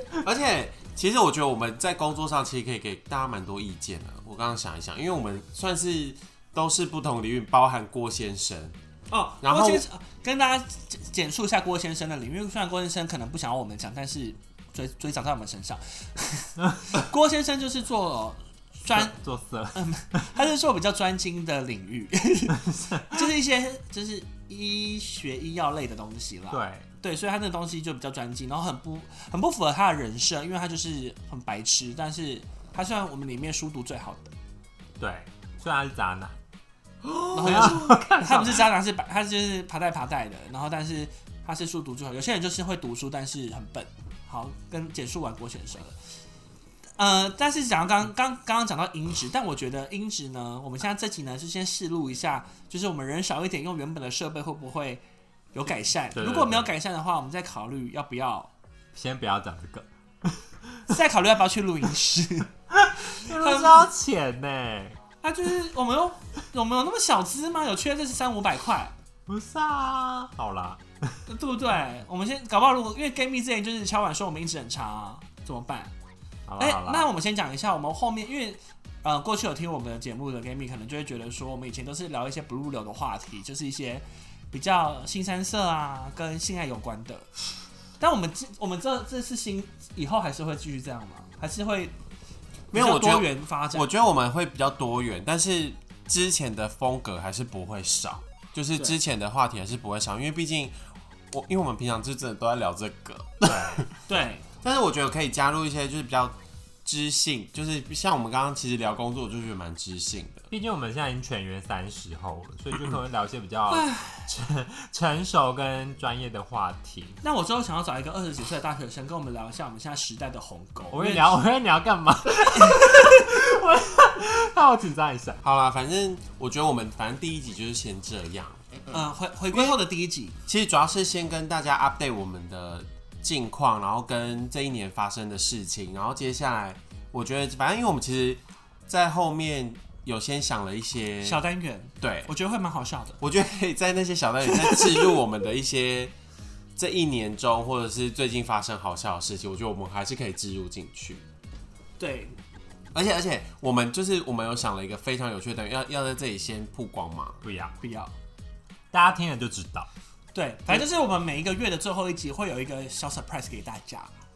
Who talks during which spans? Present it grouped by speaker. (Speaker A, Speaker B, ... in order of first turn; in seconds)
Speaker A: 0.2-8.7, 9.4-9.8, 92.7-100.8, 101.3-103.9, 104.6-110.5, 125.4-128.6, 129.5-129.8, 130.4-141.4, 142.0-142.3, 143.2-146.1, 146.8-151.2, 152.9-157.4
Speaker B: 9.1-19.1, 19.7-34.3, 37.3-46.0, 47.0-55.0, 55.5-58.5, 60.9-62.5, 63.1-63.9, 65.2-68.9, 71.3-75.9, 76.6-87.3, 88.0-91.9, 92.7-93.9, 104.1-104.4, 113.7-114.2, 117.2-121.3, 122.5-123.2, 128.9-130.4, 141.2-143.2, 144.6-145.0, 152.0-152.3, 157.8-158.1, 160.3-164.1
Speaker C: 18.9-20.3, 22.6-23.3, 26.5-26.9, 35.0-36.4, 37.0-38.7, 56.1-56.7, 58.9-61.0, 62.7-65.0, 69.3-71.2, 76.5-77.1, 103.4-103.9, 110.5-117.2, 120.9-125.4, 157.4-157.8, 158.9-159.9